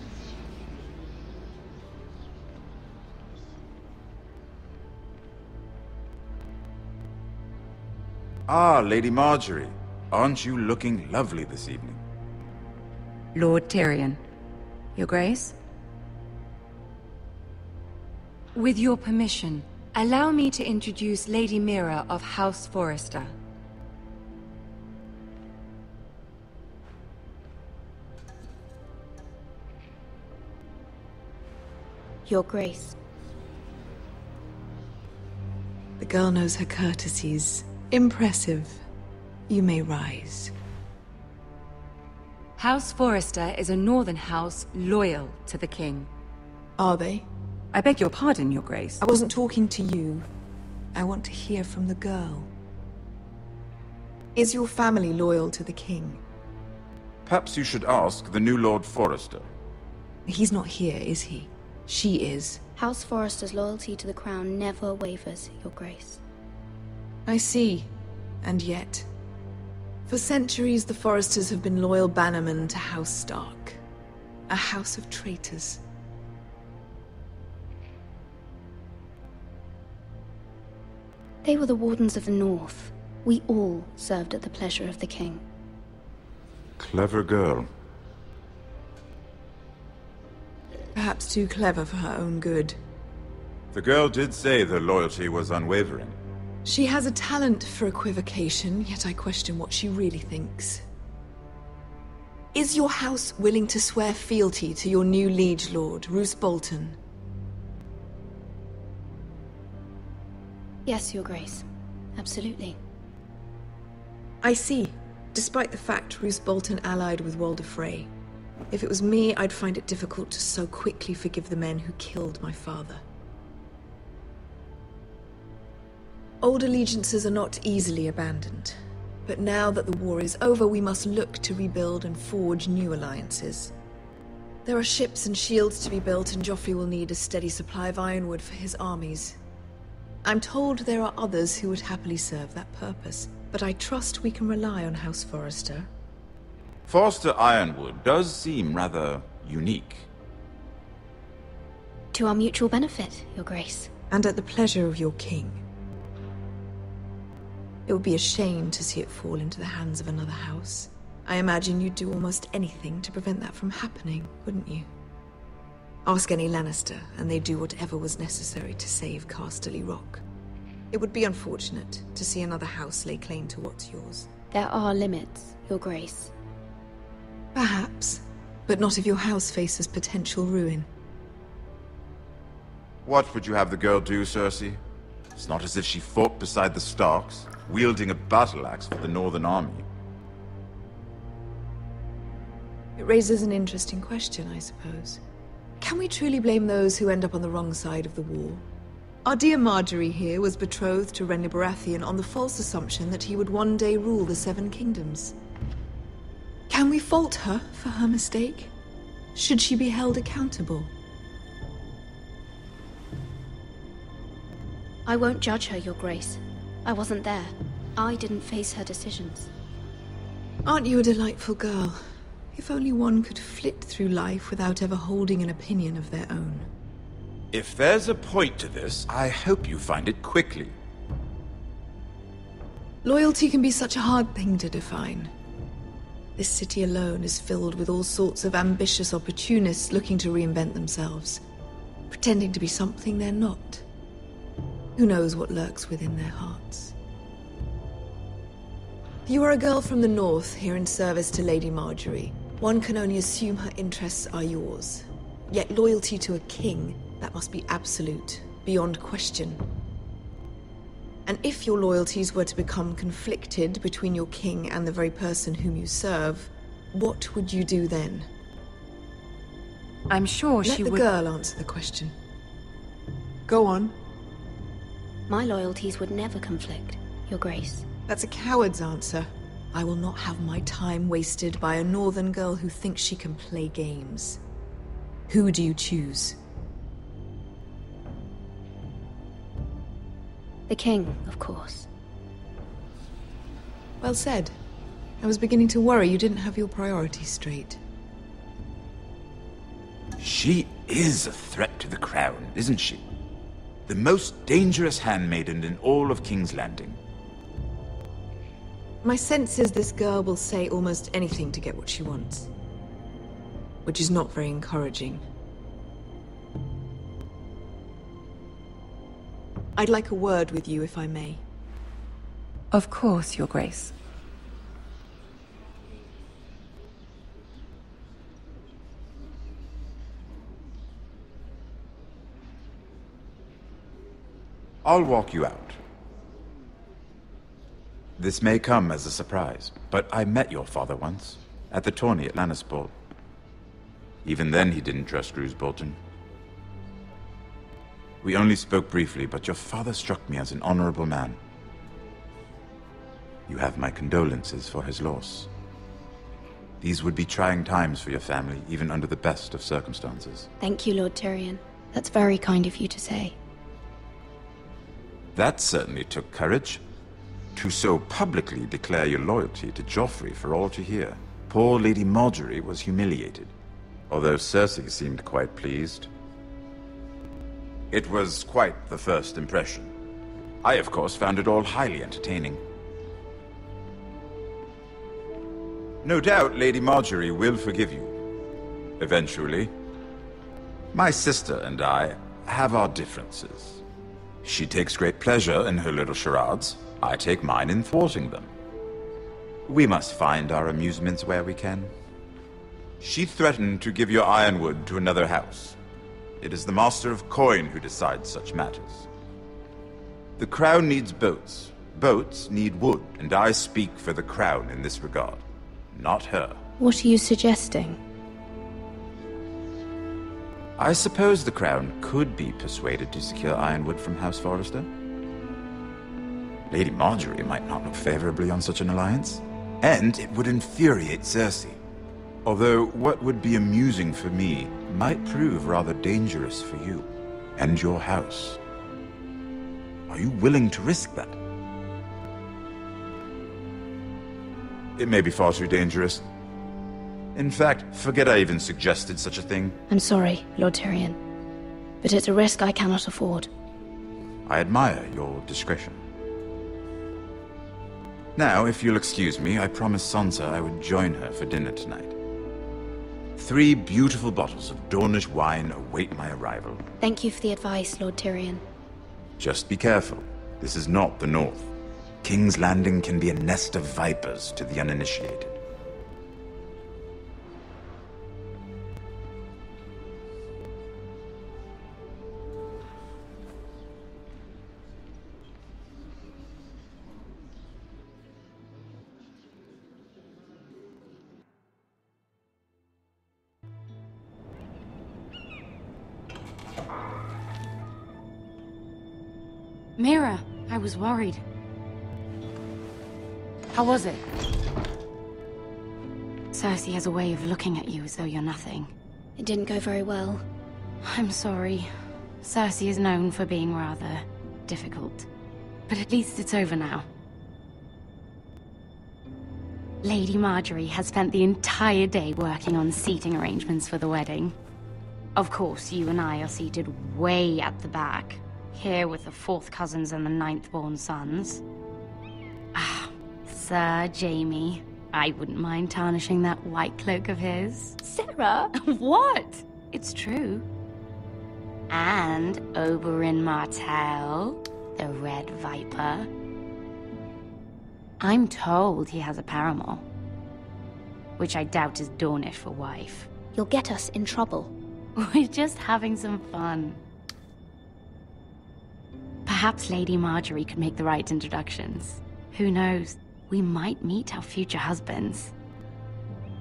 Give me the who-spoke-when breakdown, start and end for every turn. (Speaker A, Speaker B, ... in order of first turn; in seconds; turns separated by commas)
Speaker A: 8.5-12.0, Speaker B: 13.3-14.2, Speaker B: 14.9-15.5, Speaker B: 18.5-23.3, Speaker C: 32.2-33.0, Speaker D: 36.0-38.8, Speaker D: 39.5-40.5, Speaker B: 42.6-46.1, Speaker D: 46.8-47.3, Speaker B: 47.7-49.0, Speaker D: 49.0-50.3, Speaker D: 50.9-52.5, Speaker D: 54.4-56.2, Speaker A: 57.2-59.5, Speaker D: 60.2-62.6, Speaker C: 62.8-66.2, Speaker D: 67.2-67.9, Speaker D: 68.4-69.1, Speaker D: 70.1-73.8, Speaker D: 74.5-75.8, Speaker C: 81.4-85.4, Speaker A: 86.8-87.7, Speaker D: 90.9-92.8, Speaker A: 93.7-96.2, Speaker D: 96.6-100.8, Speaker D: 102.5-107.0, Speaker C: 110.9-111.6, Speaker C: 112.2-112.8, Speaker D: 114.4-118.1, Speaker D: 118.7-123.0, Speaker D: 126.4-133.7, Speaker D: 134.6-139.4, Speaker D: 140.2-145.9, Speaker A: 146.9-150.1, Speaker C: 152.1-153.9, Speaker D: 154.1-155.6, Speaker D: 157.9-164.9, Speaker D: 166.0-170.2, Speaker D: 170.9-174.3, Speaker C: 174.5-176.3, Speaker D: 177.5-180.9, Speaker A: 183.0-184.8, Speaker A: 185.3-189.8, Speaker D: 193.0-195.2, Speaker D: 195.8-198.6, Speaker D: 199.2-205.3, Speaker D: 206.7-208.7, Speaker D: 209.3-210.9, Speaker C: 215.1-219.5, Speaker D: 220.6-222.0, Speaker D: 222.5-226.7, Speaker A: 227.5-230.7, Speaker D: 233.0-235.3, Speaker D: 236.3-241.4, Speaker D: 242.1-243.8, Speaker D: 244.9-246.9, Speaker D: 249.2-259.6, Speaker D: 261.2-268.3, Speaker B: 270.1-271.1, Speaker D: 270.6-272.1, Speaker D: 273.5-273.9, Speaker C: 275.3-277.9, Speaker D: 278.1-284.4, Speaker D: 285.3-286.4, Speaker C: 290.7-291.9, Speaker D: 294.0-294.5, Speaker D: 295.2-297.8, Speaker A: 300.2-303.0, Speaker A: 303.9-307.0, Speaker D: 309.0-312.5, Speaker D: 313.8-315.2, Speaker D: 319.7-321.4, Speaker B: 322.7-323.9, Speaker A: 334.8-335.8, Speaker A: 338.2-342.9, Speaker A: 344.2-346.0, Speaker A: 348.2-351.4, Speaker A: 353.5-355.5, Speaker A: 356.8-360.5, Speaker C: 360.6-363.4, Speaker A: 365.3-366.8, Speaker A: 367.5-373.5, Speaker A: 374.1-376.1, Speaker A: 377.9-379.9, Speaker A: 380.6-382.6, Speaker A: 386.0-388.1, Speaker A: 389.0-389.7, Speaker A: 390.9-393.8, Speaker A: 394.4-398.5, Speaker A: 399.7-401.9, Speaker A: 403.0-405.8, Speaker A: 406.4-409.1, Speaker A: 410.4-416.6, Speaker C: 416.8-418.0, Speaker A: 420.8-424.9, Speaker A: 426.7-431.8, Speaker A: 432.4-438.6, Speaker A: 440.1-441.4, Speaker A: 445.0-446.2, Speaker A: 447.3-449.8, Speaker C: 449.9-451.2, Speaker C: 452.0-453.5, Speaker A: 454.4-456.0, Speaker A: 458.4-462.1, Speaker A: 463.4-466.8, Speaker C: 467.0-468.6, Speaker A: 469.4-471.7, Speaker A: 472.2-475.6, Speaker E: 500.0-501.4, Speaker E: 503.7-504.2, Speaker E: 506.5-508.9, Speaker C: 509.4-510.4, Speaker E: 511.0-515.3, Speaker E: 515.9-517.1, Speaker E: 520.0-524.5, Speaker E: 525.4-531.6, Speaker E: 532.7-538.0, Speaker C: 538.0-538.7, Speaker E: 538.8-540.7, Speaker E: 541.9-546.3, Speaker E: 548.2-550.0, Speaker E: 551.4-553.3, Speaker C: 553.5-554.7, Speaker E: 555.2-557.0, Speaker E: 559.5-565.5